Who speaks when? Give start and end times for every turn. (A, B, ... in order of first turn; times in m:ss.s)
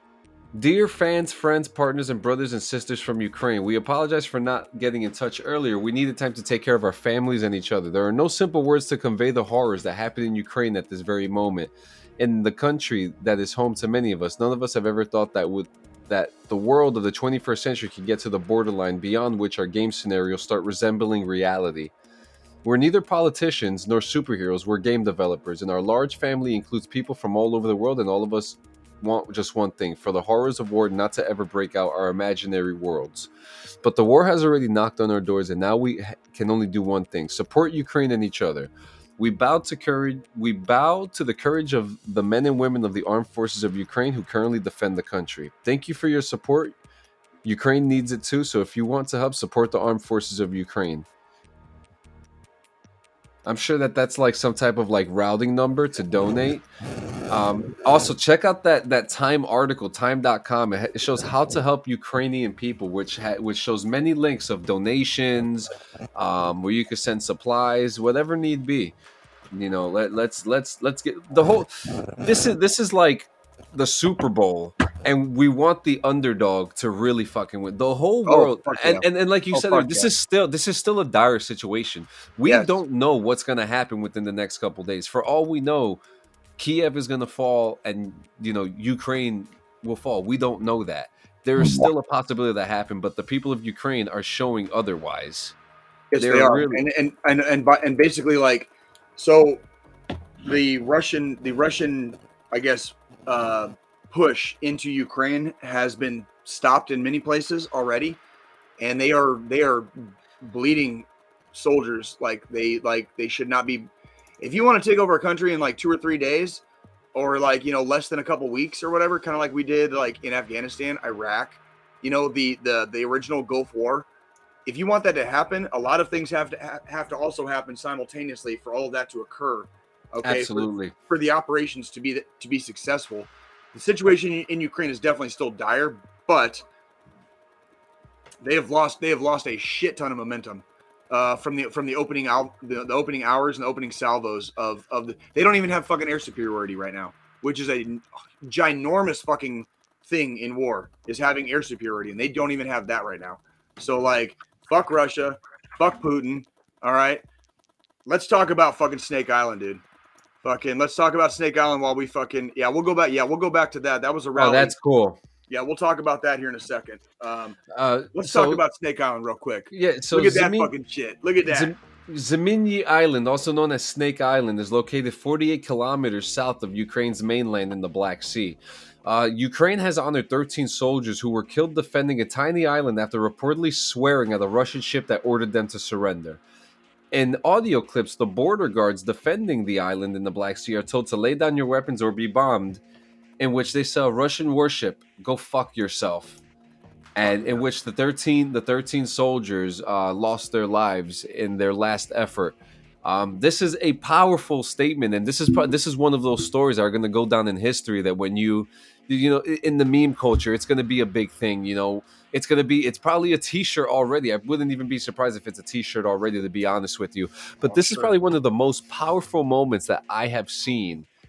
0:00.5-0:21.9 A
0:22.6-0:33.3 A
0:33.8-0:46.8 A
0:47.4-0:51.1 A
0:53.4-0:56.7 A
0:57.3-1:09.0 A
1:09.5-1:26.0 A
1:18.2-1:20.1 B
1:22.4-1:22.8 B
1:26.6-1:35.6 A
1:36.1-1:39.6 B
1:36.2-1:36.8 A
1:40.4-1:48.2 B
1:48.8-1:56.6 B
1:57.2-2:04.1 B
2:04.7-2:16.6 B
2:10.2-2:10.9 A
2:18.4-2:37.2 B
2:38.1-2:39.8 B
2:40.4-2:44.8 B
2:44.4-2:45.2 A
2:45.5-2:47.6 B
2:47.7-2:48.6 A
2:48.1-2:51.7 B
2:49.7-2:50.7 A
2:51.4-3:06.4 A
3:07.1-3:12.8 A
3:13.4-3:16.4 A
3:17.2-3:41.1 A
3:37.7-3:38.1 B